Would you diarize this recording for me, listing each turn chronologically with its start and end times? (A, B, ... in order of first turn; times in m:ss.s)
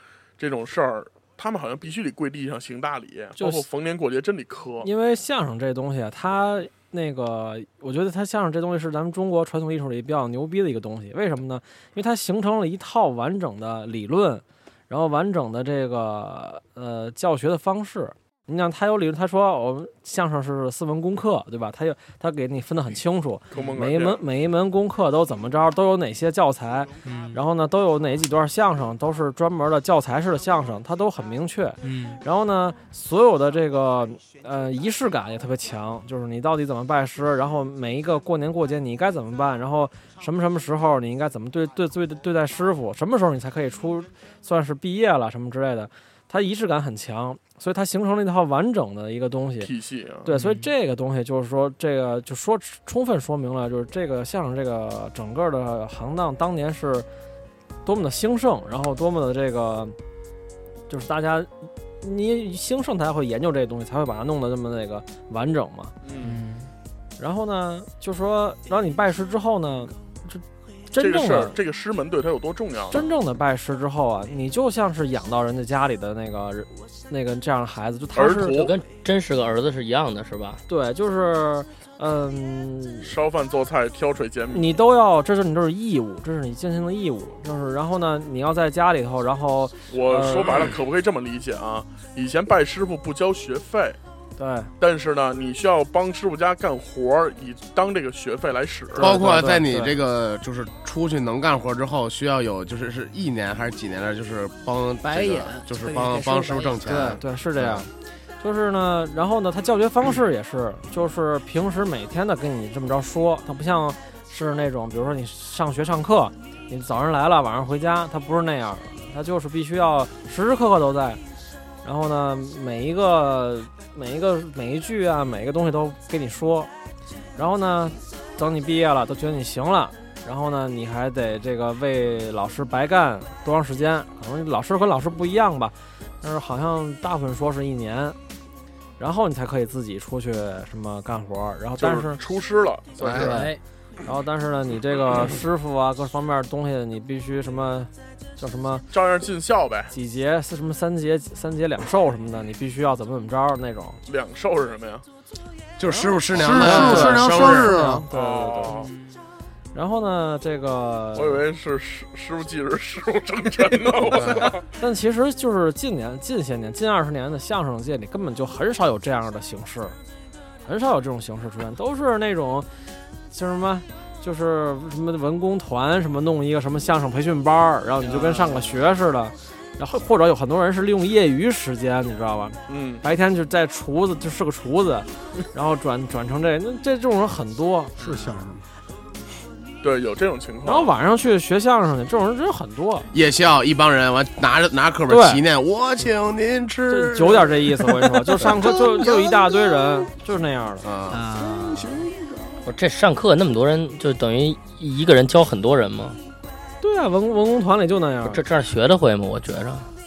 0:00.4-0:04.9 A
0:03.4-0:03.6 B
0:04.8-0:49.7 B
0:23.5-0:24.2 A
0:27.0-0:27.4 C
0:31.8-0:32.2 C
0:49.6-0:50.3 A
0:50.2-0:57.1 B
0:50.3-0:50.7 C
0:57.8-1:00.0 B
1:00.9-1:05.9 B
1:06.0-1:06.4 A
1:06.2-1:06.7 C
1:07.2-1:11.6 B
1:11.0-1:13.0 A
1:12.9-1:18.6 B
1:18.2-1:18.7 A
1:18.5-1:20.6 D
1:20.7-1:23.1 B
1:23.0-1:24.7 A
1:24.5-1:30.7 B
1:29.9-1:34.0 A
1:34.4-1:34.7 B
1:34.8-1:39.2 A
1:39.0-1:40.0 B
1:39.0-1:47.8 E
1:45.1-1:45.6 C
1:45.6-1:47.9 B
1:48.4-2:01.2 B
2:01.8-2:06.7 B
2:07.4-2:18.2 B
2:19.0-2:22.2 B
2:21.8-2:23.4 A
2:23.0-2:23.4 E
2:23.2-2:23.6 C
2:24.0-2:28.8 B
2:28.9-2:29.9 A
2:29.9-2:34.0 B
2:34.0-2:35.0 A
2:35.8-2:37.7 E
2:35.9-2:38.8 B
2:36.3-2:38.0 F
2:38.1-2:38.9 A
2:39.7-2:41.4 B
2:41.1-2:44.6 A
2:44.0-2:44.5 E
2:44.8-2:50.0 B
2:50.6-2:52.7 B
2:53.3-3:07.9 B
2:58.0-2:58.6 C
3:02.7-3:03.0 A
3:08.0-3:08.6 F
3:09.8-3:10.9 A
3:10.6-3:13.1 B
3:13.1-3:17.7 E
3:15.1-3:15.4 B
3:16.9-3:20.8 B
3:18.4-3:20.1 F
3:20.8-3:21.2 E
3:21.1-3:22.0 C
3:21.4-3:22.5 F
3:22.6-3:26.2 D
3:26.8-3:28.4 B
3:28.2-3:29.9 D